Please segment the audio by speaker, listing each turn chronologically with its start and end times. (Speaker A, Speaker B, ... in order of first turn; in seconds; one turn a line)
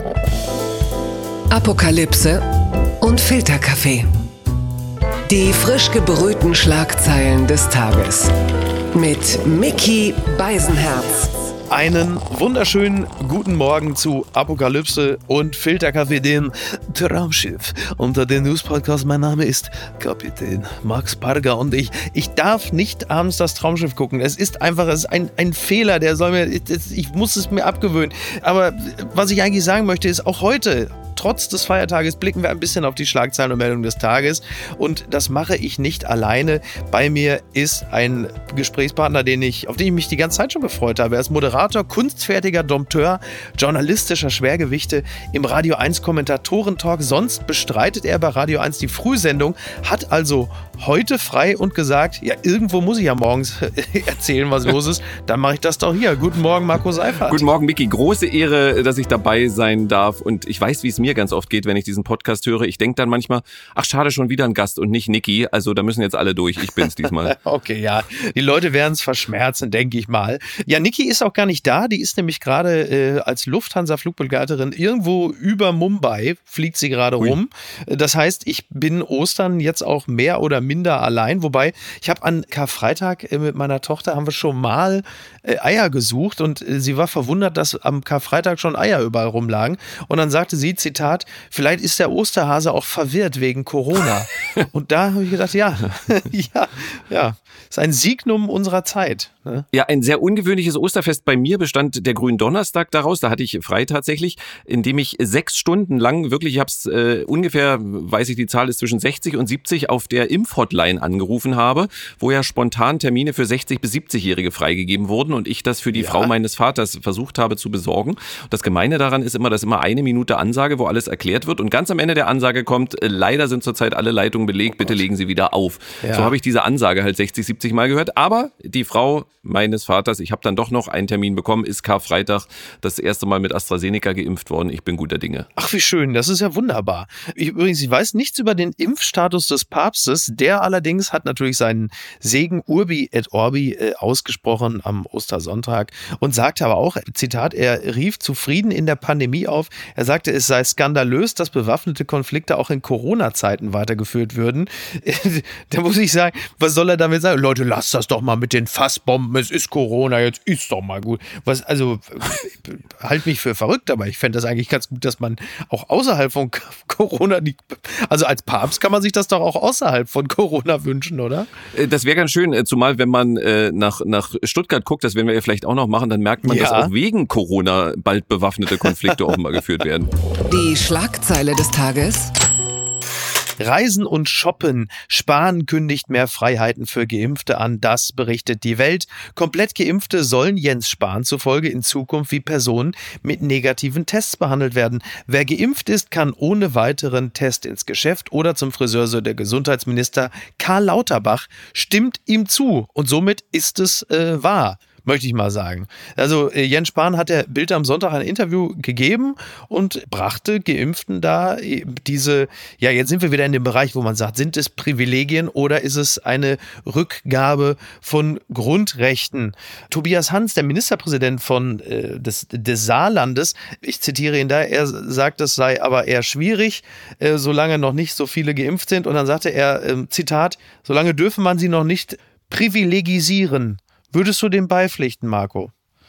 Speaker A: 1.5-2.4
Speaker A: 3.0-4.1
Speaker A: 5.3-8.3
Speaker A: 8.9-11.3
Speaker B: 11.7-57.4
Speaker C: 57.3-67.3
Speaker B: 67.2-99.7
Speaker C: 99.7-135.5
Speaker B: 115.9-116.3
Speaker B: 126.0-126.3
Speaker B: 135.6-171.5
Speaker C: 171.7-180.1
Speaker B: 176.4-176.9
Speaker A: 180.5-182.3
Speaker B: 183.6-235.7